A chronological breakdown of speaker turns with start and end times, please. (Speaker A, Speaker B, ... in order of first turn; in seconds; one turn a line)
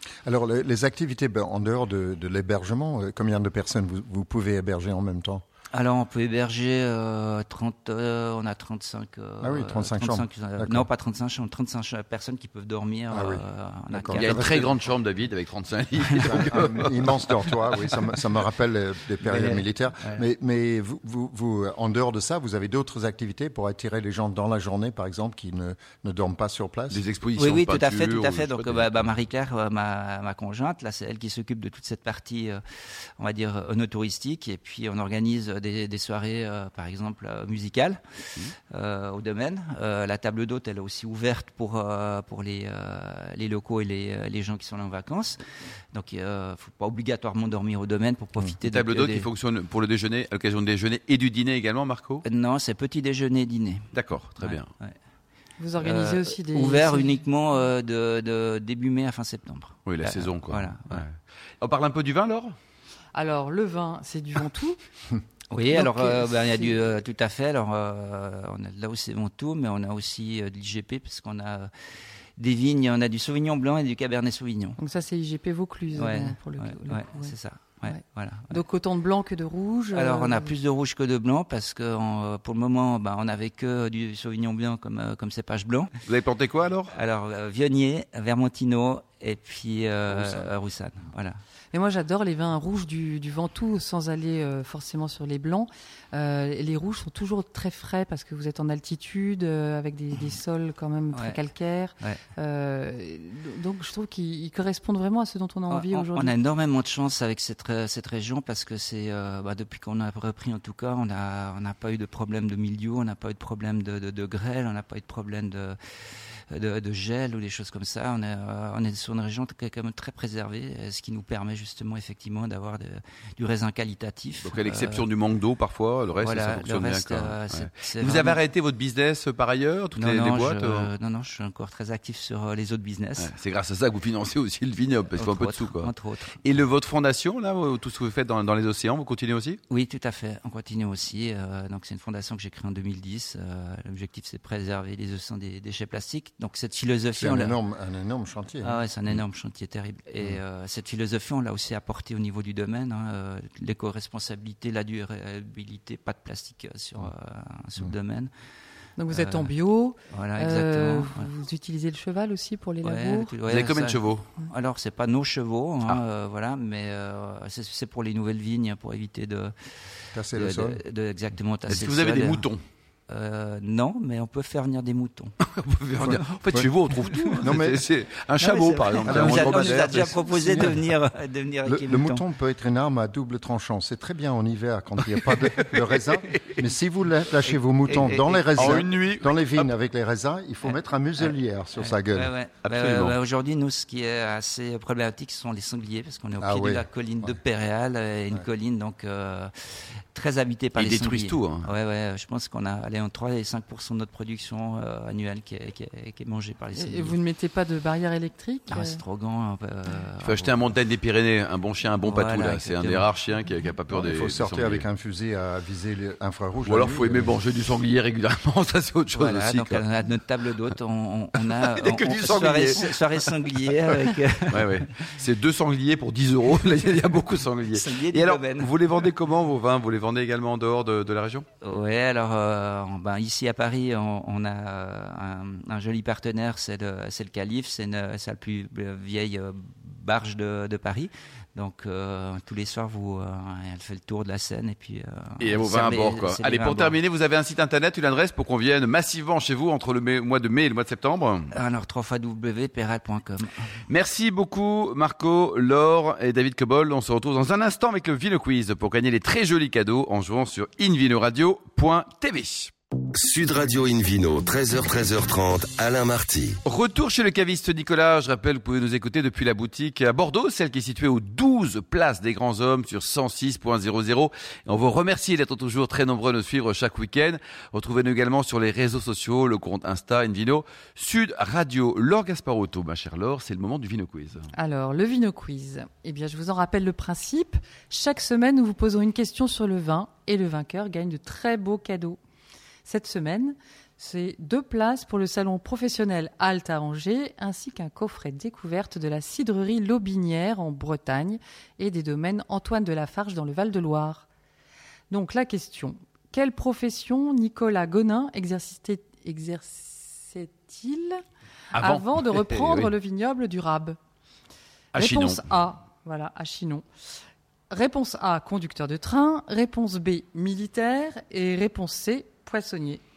Speaker A: 0.2-5.4
Speaker B: 5.7-14.7
Speaker A: 9.4-10.9
Speaker A: 13.1-14.7
Speaker C: 14.1-16.9
Speaker B: 16.1-16.9
Speaker A: 16.2-27.0
Speaker B: 19.2-20.2
Speaker C: 26.9-29.1
Speaker B: 27.4-32.6
Speaker B: 33.2-38.1
Speaker B: 38.7-45.4
Speaker B: 45.9-49.3
Speaker C: 48.6-52.2
Speaker B: 52.2-54.9
Speaker C: 53.9-54.7
Speaker D: 55.6-57.2
Speaker B: 55.8-61.0
Speaker C: 59.9-62.5
Speaker D: 63.1-64.8
Speaker B: 65.5-71.7
Speaker D: 65.7-66.8
Speaker B: 72.4-74.8
Speaker D: 74.8-77.3
Speaker B: 75.9-78.6
Speaker D: 77.9-80.5
Speaker B: 79.9-85.9
Speaker C: 86.0-86.9
Speaker B: 86.9-91.3
Speaker C: 90.1-90.5
Speaker D: 91.7-106.3
Speaker B: 101.1-101.4
Speaker B: 105.7-115.8
Speaker B: 116.5-125.1
Speaker C: 124.4-130.9
Speaker B: 126.2-128.4
Speaker B: 129.9-133.3
Speaker C: 133.2-139.6
Speaker B: 135.2-136.4
Speaker B: 139.7-147.6
Speaker A: 147.2-148.8
Speaker B: 148.6-158.3
Speaker D: 159.0-163.3
Speaker B: 159.1-159.5
Speaker B: 160.1-161.3
Speaker B: 162.8-169.5
Speaker C: 163.4-164.3
Speaker A: 170.1-170.8
Speaker B: 170.3-172.4
Speaker C: 171.7-172.6
Speaker B: 173.1-175.3
Speaker C: 175.4-180.1
Speaker A: 176.0-176.7
Speaker B: 177.1-177.4
Speaker A: 177.4-177.8
Speaker B: 178.4-182.2
Speaker A: 179.0-180.9
Speaker A: 181.6-192.3
Speaker B: 187.5-188.8
Speaker C: 188.6-189.7
Speaker B: 190.6-199.5
Speaker C: 192.6-193.1
Speaker A: 196.4-197.4
Speaker B: 200.1-207.2
Speaker C: 200.7-201.7
Speaker D: 206.7-209.0
Speaker B: 208.7-210.6
Speaker C: 210.2-214.8
Speaker B: 212.0-213.1
Speaker A: 213.9-217.3
Speaker C: 216.6-219.8
Speaker B: 219.1-224.8
Speaker C: 221.4-223.0
Speaker C: 224.5-231.4
Speaker B: 227.7-228.7
Speaker B: 231.6-247.0
Speaker C: 245.4-251.5
Speaker B: 251.5-253.5
Speaker C: 253.9-262.7
Speaker E: 263.1-266.6
Speaker C: 266.6-284.5
Speaker D: 284.5-292.2
Speaker D: 292.8-304.2
Speaker D: 305.1-311.2
Speaker C: 311.7-312.9
Speaker D: 311.7-314.0
Speaker C: 314.9-315.5
Speaker D: 315.0-316.8
Speaker D: 317.7-323.0